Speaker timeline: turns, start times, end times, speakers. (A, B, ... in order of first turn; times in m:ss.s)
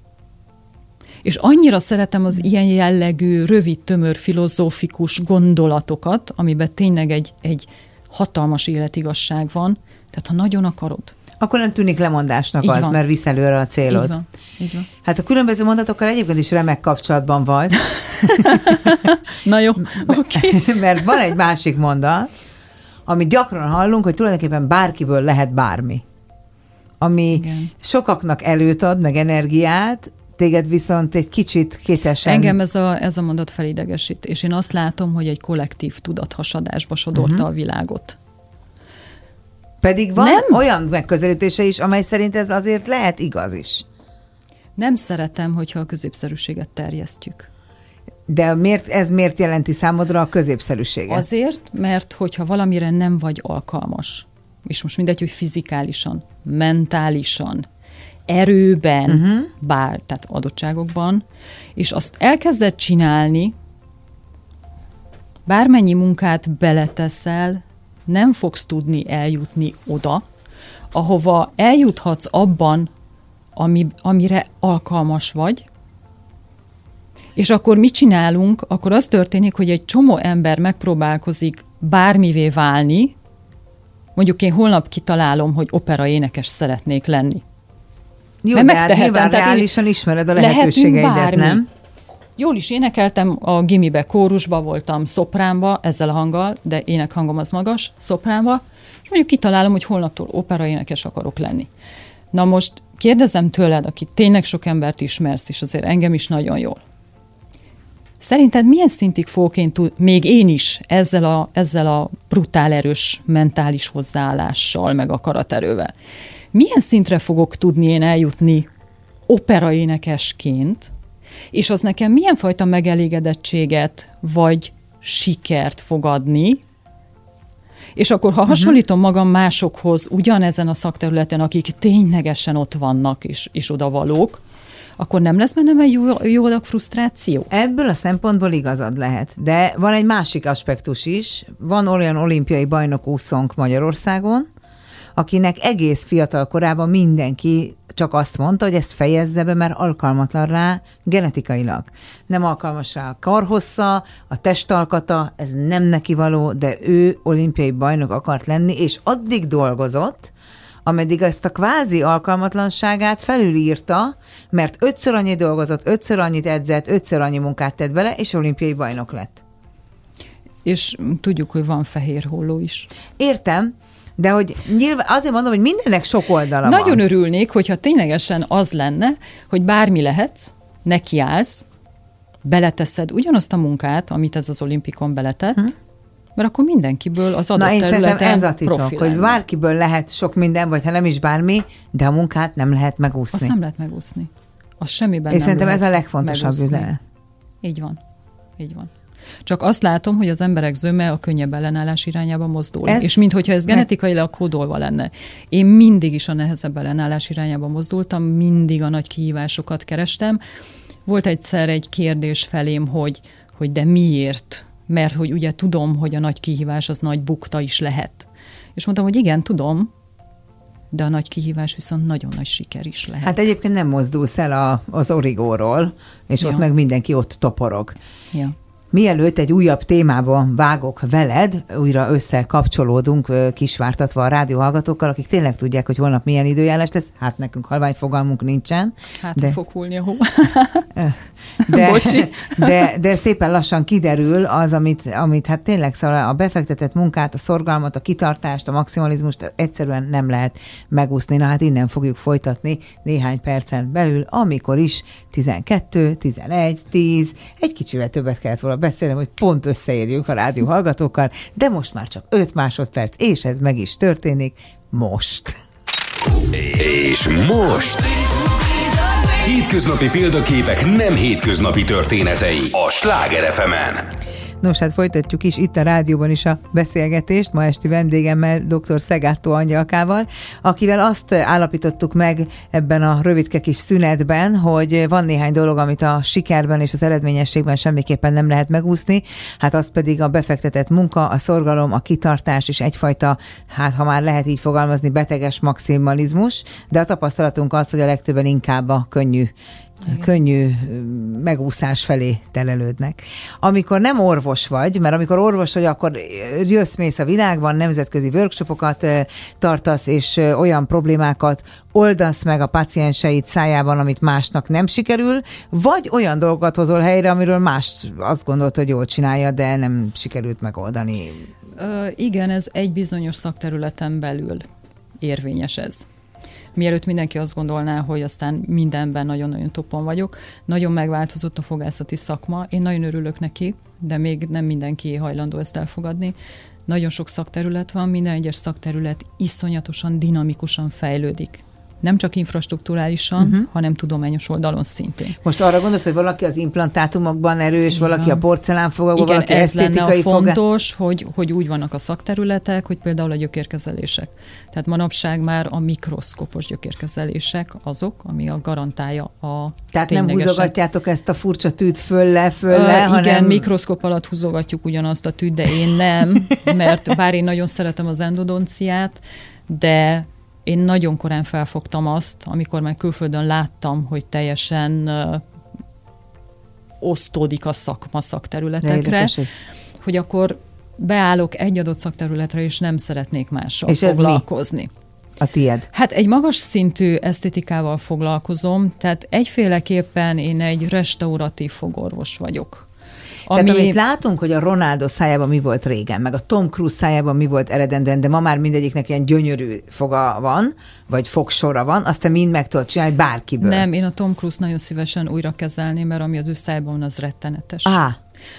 0:01.2-0:11.1 A
0:11.4-0:14.2 B
0:12.6-0:13.0 A
0:13.9-0:14.9 A
0:15.0-0:18.9 B
0:18.1-0:21.1 A
0:19.9-0:22.3 B
0:23.0-0:26.0 B
0:27.0-0:32.6 B
0:27.3-0:27.7 A
0:32.2-0:38.2 A
0:37.1-0:37.4 B
0:39.8-0:43.8 B
0:40.2-0:40.6 A
0:44.8-0:47.5 A
0:48.3-0:51.2 B
0:51.1-0:57.6 A
0:58.3-1:01.2 A
0:59.1-0:59.5 B
1:01.8-1:03.5 A
1:05.4-1:10.2 A
1:10.9-1:12.9 A
1:13.5-1:15.6 A
1:17.4-1:23.1 A
1:24.2-1:27.4 A
1:28.4-1:31.6 B
1:28.5-1:29.7 A
1:30.3-1:31.6 A
1:32.4-1:41.7 A
1:42.3-1:46.8 A
1:48.2-1:55.9 A
1:56.5-1:58.7 A
1:59.3-2:00.9 A
2:01.5-2:06.6 A
2:08.0-2:14.4 A
2:08.5-2:08.7 B
2:15.0-2:17.5 A
2:17.5-2:24.5 B
2:25.2-2:40.3 B
2:40.8-2:49.4 B
2:50.6-2:52.9 A
2:53.2-2:57.0 B
2:56.6-3:01.6 A
3:02.4-3:05.7 A
3:06.4-3:09.4 A
3:07.6-3:13.5 B
3:13.3-3:16.9 A
3:15.3-3:17.0 B
3:17.6-3:18.0 A
3:18.6-3:18.9 A
3:19.4-3:30.4 A
3:22.9-3:23.8 B
3:31.0-3:39.9 A
3:40.9-3:43.5 A
3:43.2-3:48.0 B
3:48.9-3:59.6 B
3:59.2-4:00.9 A
4:00.9-4:25.6 B
4:01.6-4:02.7 A
4:26.4-4:34.0 C
4:34.6-4:59.5 B
5:00.0-5:21.5 B
5:21.8-5:24.6 A
5:25.2-5:26.1 A
5:26.7-5:36.3 A
5:36.9-5:45.4 A
5:43.4-5:43.7 B
5:45.4-5:50.6 B
5:47.9-5:48.4 A
5:49.1-6:00.7 A
5:59.9-6:03.6 B
6:02.7-6:15.4 A
6:17.0-6:19.4 A
6:18.8-6:19.5 B
6:20.0-6:24.9 A
6:23.9-6:24.4 B
6:25.4-6:25.9 B
6:25.9-6:32.9 A
6:33.5-6:34.0 A
6:33.5-6:43.8 B
6:43.6-6:48.0 A
6:47.8-6:48.2 B